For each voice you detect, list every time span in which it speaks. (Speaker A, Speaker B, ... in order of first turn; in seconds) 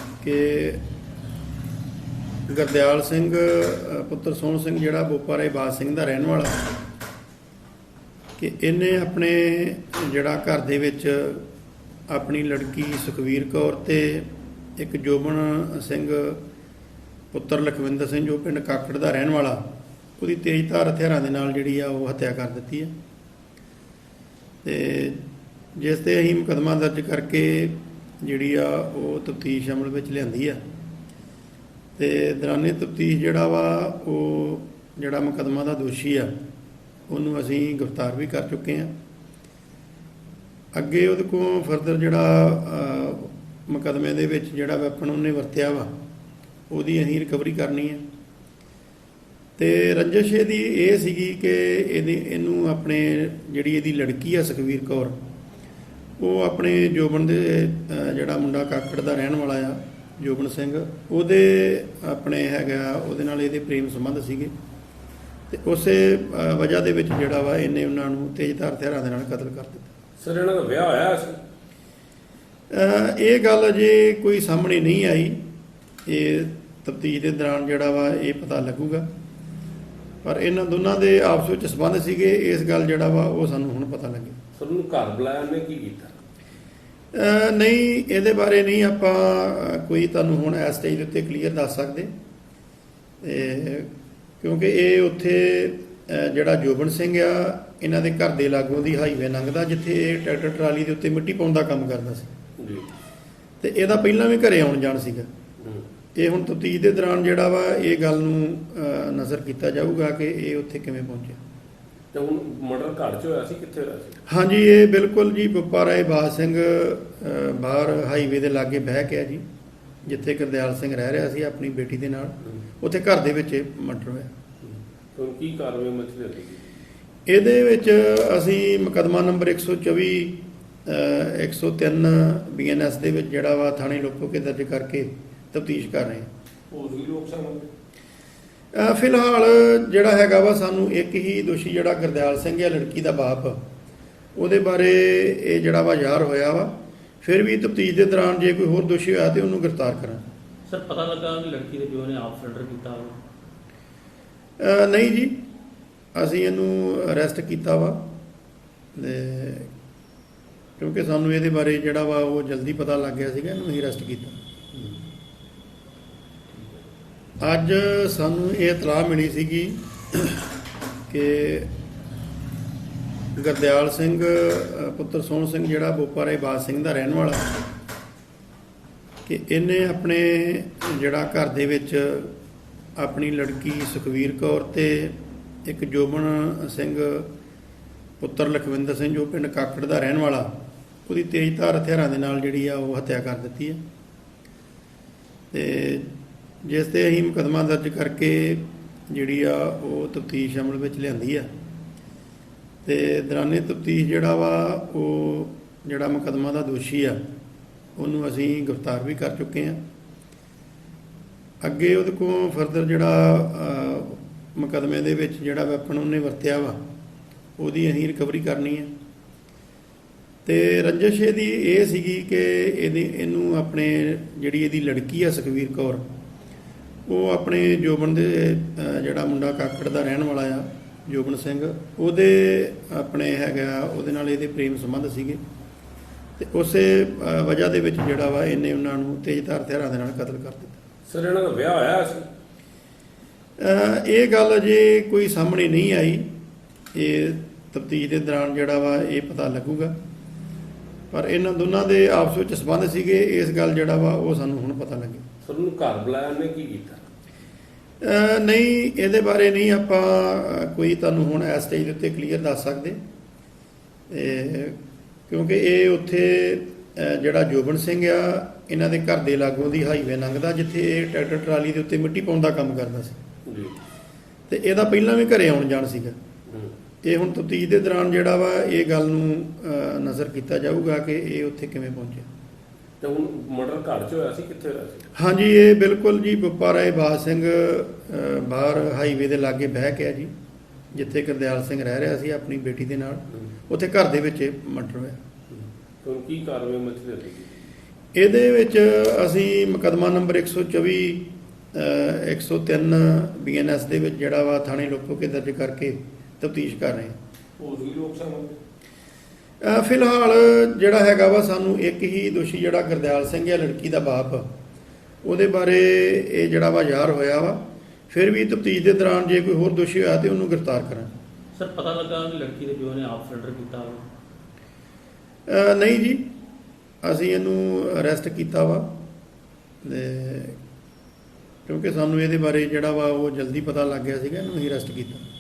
Speaker A: 0.2-0.8, 2.5-6.6, 8.4-11.5, 12.1-16.4, 17.3-19.6, 20.2-22.9, 24.6-25.2, 25.8-30.6, 32.0-36.3, 37.1-38.9, 40.7-45.9, 46.7-48.1, 49.6-55.2, 56.2-64.5, 65.5-69.9, 72.7-75.4, 76.1-79.1, 80.2-84.4, 87.1-92.1, 93.2-102.3, 103.6-105.3, 106.2-111.4, 114.3-119.4, 120.0-124.3, 127.3-136.3, 138.7-143.6, 144.4-150.2, 154.6-155.4, 156.1-158.1, 158.9-159.7, 160.8-164.4, 167.4-170.4, 171.1-171.7, 173.4-177.5, 179.3-182.3, 183.0-187.3, 188.2-190.5, 191.1-193.8, 195.5-201.5, 202.8-207.2, 208.0-209.8, 211.6-216.8, 217.6-218.9, 220.4-226.1, 227.1-235.4, 236.4-240.8, 243.6-246.3, 246.9-249.9, 251.1-255.2, 258.0-263.0, 264.1-264.8, 265.3-273.2, 274.5-276.2, 277.0-282.3, 285.1-290.3, 290.9-295.2, 298.1-307.2, 309.6-314.5, 315.2-321.1, 325.5-326.2, 327.0-328.9, 329.8-330.6, 331.7-335.2
Speaker B: 70.2-71.4, 84.6-86.2, 102.6-102.9, 105.6-105.8, 112.1-114.2, 124.6-126.7, 136.7-137.7, 241.1-242.3, 255.4-257.0, 273.5-273.8, 283.0-285.1, 295.5-297.6, 307.6-308.6
Speaker C: 150.7-153.2, 321.6-324.1